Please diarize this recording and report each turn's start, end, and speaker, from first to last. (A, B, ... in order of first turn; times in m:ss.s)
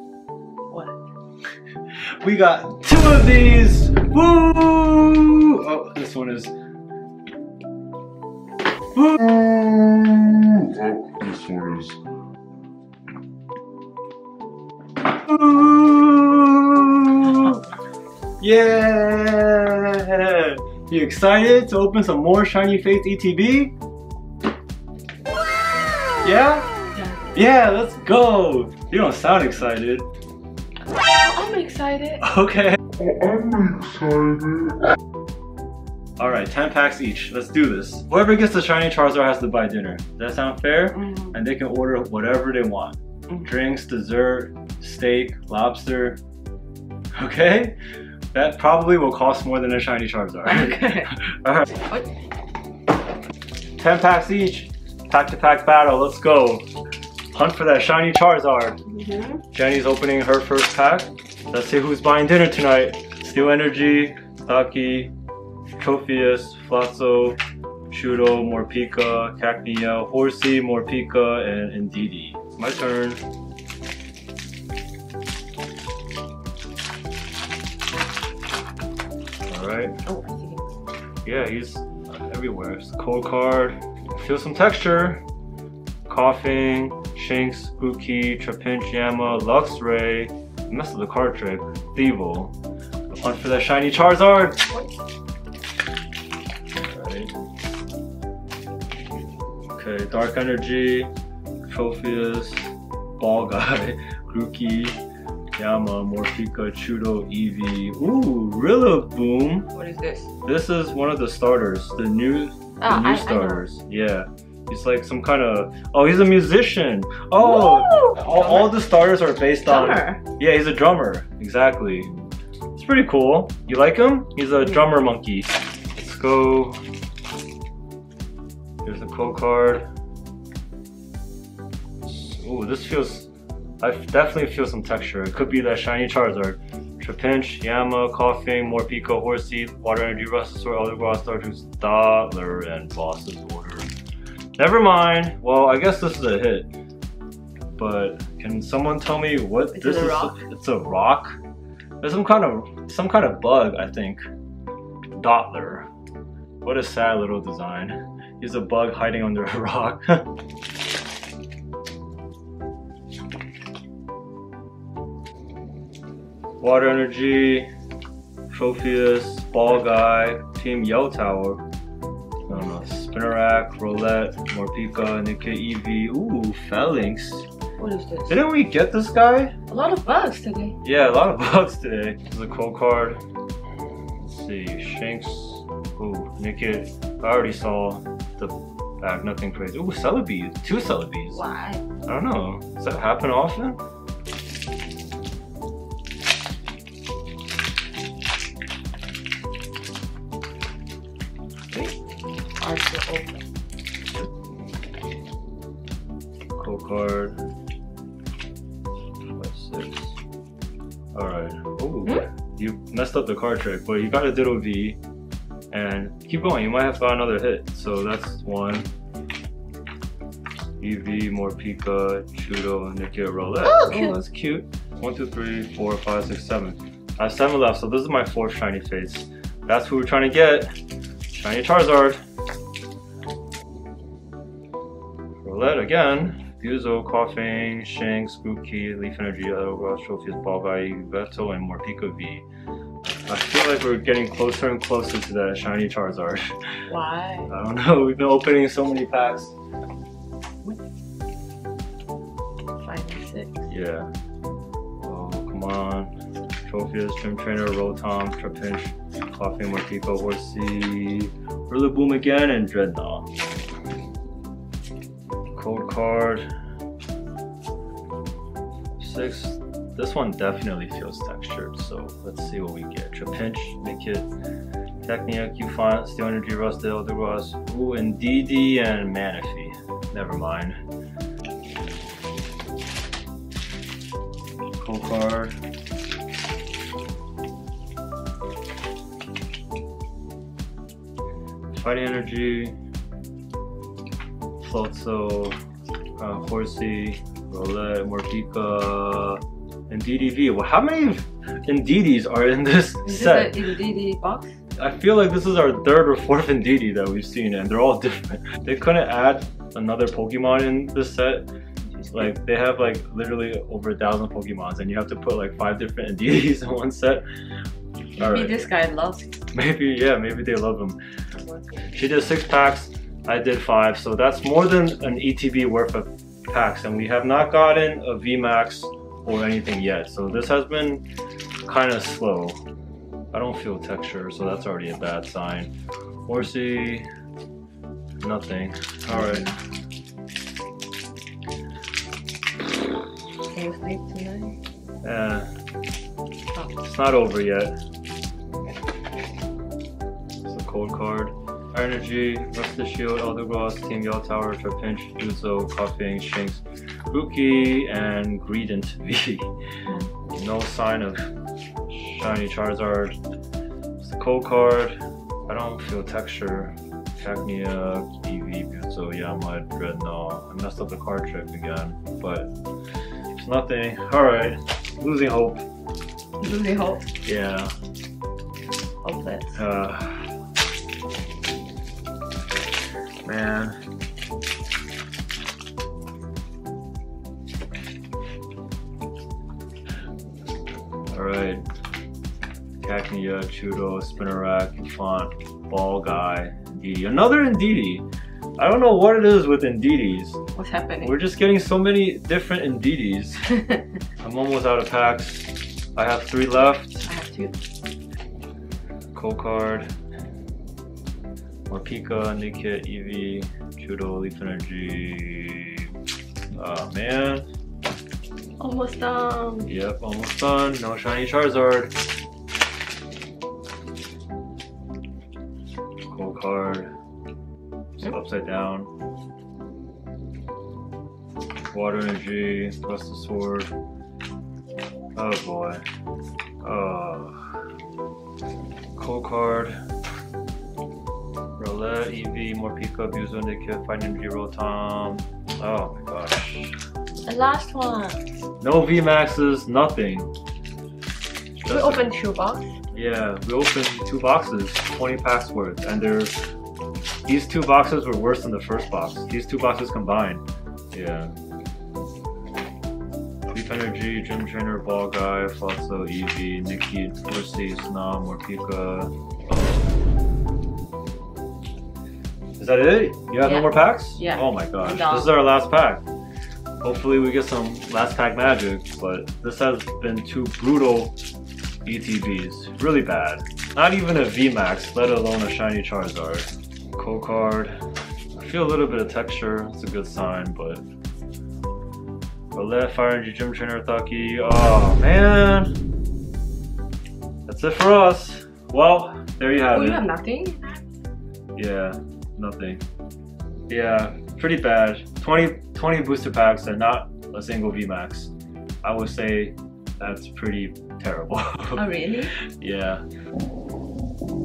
0:00.7-0:00.9 A
0:02.2-0:06.5 B
0:09.0-0:12.0 C
0:15.2-0:17.6 B
0:18.4-0:23.7 B
0:26.2-0:26.7 B
0:27.3-0:30.1 B
0:31.2-0:32.2 A
0:32.2-0:32.8 B
0:33.0-0:34.7 C
0:36.2-0:46.2 B
0:40.9-0:41.4 A
0:47.1-0:47.8 B
0:48.3-0:51.7 B
0:50.4-0:51.1 A
0:51.8-0:52.1 A
0:53.8-0:56.6 B
0:57.3-0:58.8 B
0:58.8-0:59.4 A
0:59.5-1:05.1 B
1:05.8-1:07.4 B
1:07.9-1:13.2 B
1:19.5-1:20.0 B
1:20.0-1:20.7 A
1:21.2-1:25.2 B
1:26.1-1:32.5 B
1:33.1-1:34.7 B
1:36.8-1:37.3 B
1:39.7-1:41.1 B
1:41.6-1:45.0 B
1:45.6-1:49.7 B
1:49.7-1:50.3 A
1:50.4-2:02.1 B
1:52.8-1:53.7 A
1:57.4-1:58.7 A
1:59.6-2:00.2 A
2:02.7-2:06.8 B
2:08.8-2:09.9 B
2:12.0-2:23.9 B
2:24.6-2:26.7 B
2:27.8-2:31.4 B
2:29.7-2:30.4 A
2:32.0-2:34.2 B
2:35.1-2:35.9 B
2:36.6-2:40.3 B
2:46.6-2:47.7 B
2:48.5-2:51.6 B
2:52.5-2:57.5 B
2:57.8-2:58.4 A
2:58.3-2:59.5 B
2:59.7-3:00.8 A
3:00.8-3:03.2 B
3:04.2-3:11.4 B
3:11.3-3:11.8 A
3:12.0-3:13.8 B
3:22.6-3:23.4 A
3:26.6-3:27.4 B
3:29.3-3:30.2 B
3:31.1-3:35.0 B
3:35.7-3:38.9 B
3:40.8-3:50.7 B
3:43.6-3:44.1 A
3:51.3-3:52.2 B
3:55.4-4:02.4 B
4:03.0-4:06.5 B
4:06.9-4:07.5 A
4:07.5-4:09.5 B
4:12.8-4:13.6 A
4:13.7-4:14.1 B
4:15.0-4:16.1 B
4:16.6-4:23.3 B
4:25.5-4:26.5 B
4:29.0-4:34.3 B
4:35.0-4:40.8 B
4:44.8-4:45.5 B
4:51.7-4:52.7 B
4:54.6-4:55.5 B
4:56.2-5:03.5 B
5:03.0-5:04.5 A
5:04.8-5:11.5 B
5:12.0-5:12.3 A
5:12.1-5:17.2 B
5:18.2-5:18.6 B
5:18.2-5:19.4 A
5:19.5-5:21.0 B
5:21.9-5:31.0 B
5:31.6-5:32.6 B
5:33.3-5:35.7 B
5:36.2-5:37.1 B
5:38.2-5:39.5 B
5:39.1-5:39.5 A
5:43.5-5:44.6 A
5:45.0-5:45.5 B
5:46.8-5:47.7 B
5:50.4-5:59.5 B
6:00.3-6:01.3 B
6:01.9-6:03.2 B
6:04.0-6:12.5 B
6:13.3-6:15.6 B
6:16.4-6:17.0 A
6:17.2-6:17.7 B
6:19.0-6:19.6 A
6:19.5-6:20.3 B
6:23.2-6:23.8 B
6:31.1-6:31.6 B
6:32.8-6:38.0 B
6:38.6-6:40.4 B
6:40.5-6:41.2 A
6:41.0-6:43.5 B
6:44.2-6:47.1 B
6:47.0-6:47.6 A
6:49.1-6:49.9 B
6:51.7-6:55.9 B
6:56.6-6:57.4 B
6:58.6-6:59.7 A
6:59.7-7:01.9 B
7:06.1-7:06.9 B
7:08.0-7:08.9 B
7:11.7-7:13.7 B
7:15.1-7:15.8 B
7:16.6-7:17.4 B
7:19.0-7:19.8 B
7:21.6-7:26.8 B
7:27.2-7:28.2 A
7:28.6-7:30.3 B
7:31.6-7:32.0 B
7:31.6-7:32.8 A
7:32.9-7:36.3 B
7:37.2-7:41.3 B
7:43.5-7:49.1 B
7:52.6-7:56.0 B
7:53.4-7:55.4 A
7:56.8-8:01.1 B
8:01.8-8:07.8 B
8:08.4-8:10.8 B
8:12.5-8:15.8 B
8:17.4-8:20.1 B
8:19.7-8:20.8 A
8:21.6-8:22.8 B
8:23.7-8:28.3 B
8:28.8-8:31.8 B
8:31.7-8:32.3 A
8:32.5-8:33.0 B